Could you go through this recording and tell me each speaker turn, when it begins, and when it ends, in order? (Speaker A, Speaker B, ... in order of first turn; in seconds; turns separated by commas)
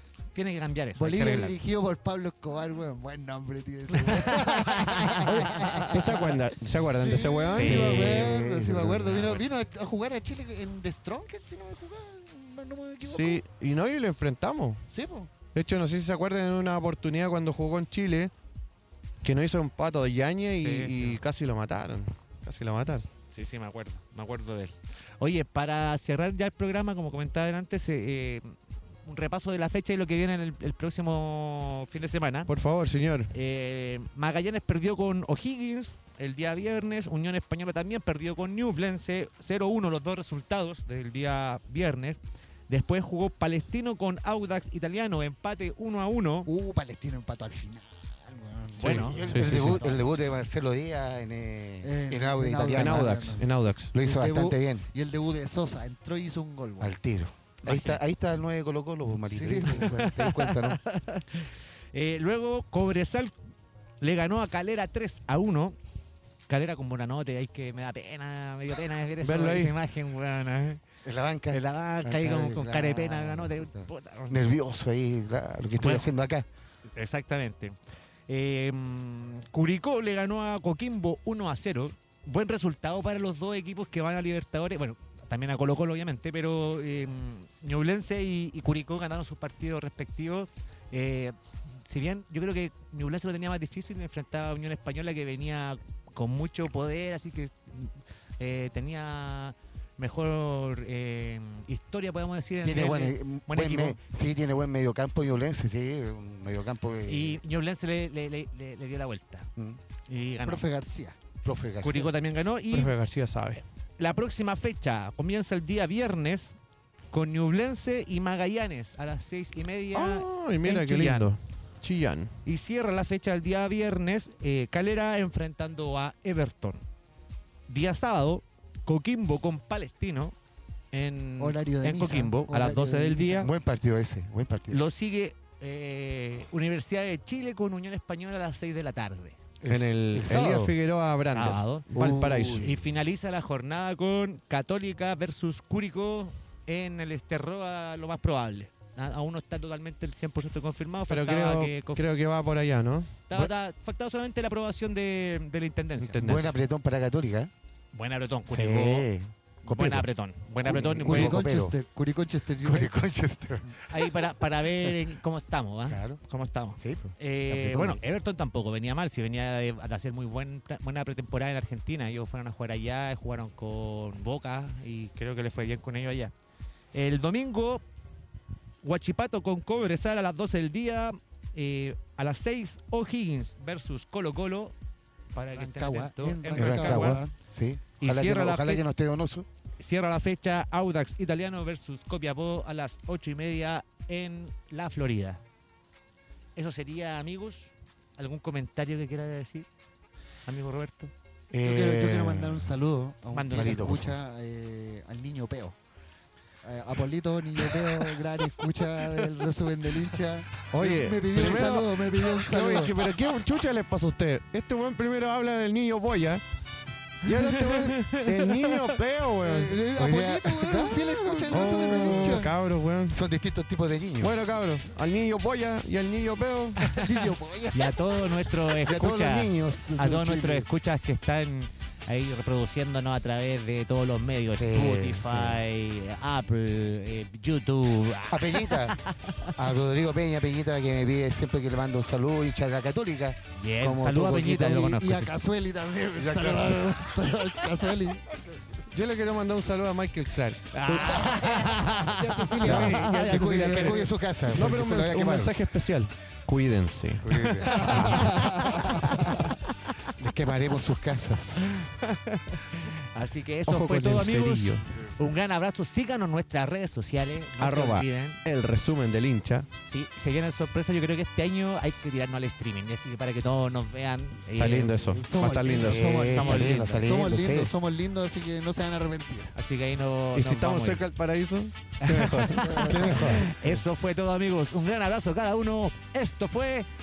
Speaker A: 0.3-1.6, Speaker B: 0.9-13.4, Speaker A: 4.0-6.0, Speaker C: 5.9-8.0, Speaker A: 7.5-8.4, Speaker D: 7.7-9.4, Speaker C: 13.0-14.8, Speaker B: 14.9-15.3, Speaker C: 15.5-18.3, Speaker C: 19.2-23.1, Speaker A: 20.6-21.2, Speaker A: 23.3-32.5, Speaker C: 32.5-33.3, Speaker A: 33.3-46.5, Speaker B: 46.5-50.1, Speaker A: 48.8-49.2, Speaker D: 48.8-53.4, Speaker C: 49.2-49.8, Speaker B: 51.8-57.0, Speaker C: 52.7-53.9, Speaker D: 53.9-54.9, Speaker D: 56.8-60.8, Speaker A: 57.6-58.0, Speaker B: 59.2-60.0, Speaker A: 59.7-63.3, Speaker A: 64.0-65.8, Speaker A: 66.5-70.8, Speaker C: 69.2-69.7, Speaker D: 71.0-76.5, Speaker A: 71.5-74.4, Speaker A: 75.8-76.1, Speaker A: 76.9-77.8, Speaker A: 78.3-104.0, Speaker D: 102.6-107.4, Speaker A: 107.0-109.5, Speaker A: 110.1-110.7, Speaker B: 110.4-111.2, Speaker D: 111.4-112.1, Speaker A: 111.8-112.9, Speaker C: 112.7-113.6, Speaker A: 113.5-116.6, Speaker A: 117.1-121.3, Speaker C: 119.9-122.4, Speaker A: 122.4-126.8, Speaker A: 127.7-130.3, Speaker A: 130.9-133.5, Speaker B: 131.4-133.5, Speaker D: 133.4-134.8, Speaker A: 134.7-139.4, Speaker D: 139.6-140.7, Speaker C: 139.7-142.7, Speaker A: 141.2-141.9, Speaker D: 141.9-142.8, Speaker A: 142.5-152.0, Speaker C: 151.1-153.5, Speaker A: 153.3-156.2, Speaker C: 156.0-156.5, Speaker D: 156.2-157.5, Speaker A: 157.9-159.1, Speaker D: 158.5-160.1, Speaker A: 159.6-161.4, Speaker D: 160.6-161.8, Speaker B: 160.7-162.9, Speaker D: 162.6-164.2, Speaker A: 163.9-176.3, Speaker D: 165.9-166.2, Speaker D: 166.8-168.0, Speaker A: 176.9-177.8, Speaker A: 178.8-184.7, Speaker A: 185.3-187.2, Speaker B: 185.6-187.3, Speaker D: 186.6-189.4, Speaker A: 188.0-188.8, Speaker A: 189.8-195.4, Speaker A: 196.6-199.7, Speaker A: 200.4-201.1, Speaker D: 201.5-202.7, Speaker B: 201.6-205.8, Speaker A: 203.3-203.9, Speaker D: 203.5-204.1, Speaker B: 206.6-212.9, Speaker C: 210.7-216.4, Speaker C: 217.2-219.8, Speaker A: 217.3-218.9, Speaker B: 219.4-222.5, Speaker D: 219.9-222.4, Speaker C: 221.5-223.2, Speaker D: 223.1-224.3, Speaker C: 224.2-226.8, Speaker A: 226.8-227.1, Speaker B: 226.9-228.0, Speaker A: 227.7-239.5, Speaker D: 228.8-230.7, Speaker D: 234.6-235.6, Speaker D: 238.3-239.0, Speaker D: 239.5-244.9, Speaker A: 243.5-245.3, Speaker B: 244.8-248.3, Speaker D: 246.2-247.2, Speaker C: 248.9-251.6, Speaker A: 250.7-254.1, Speaker B: 251.0-254.1, Speaker D: 252.6-255.5, Speaker C: 252.8-258.8, Speaker D: 257.2-258.2, Speaker A: 257.7-260.1, Speaker B: 257.7-258.8, Speaker D: 260.1-261.7, Speaker A: 261.6-268.4, Speaker C: 263.6-265.0, Speaker C: 267.6-269.7, Speaker A: 269.9-277.1, Speaker C: 274.6-276.7, Speaker B: 275.2-276.0, Speaker D: 275.9-277.7, Speaker B: 277.0-279.5, Speaker A: 279.5-281.0, Speaker C: 280.3-283.7, Speaker A: 282.0-286.9, Speaker B: 282.6-283.4, Speaker D: 282.9-283.5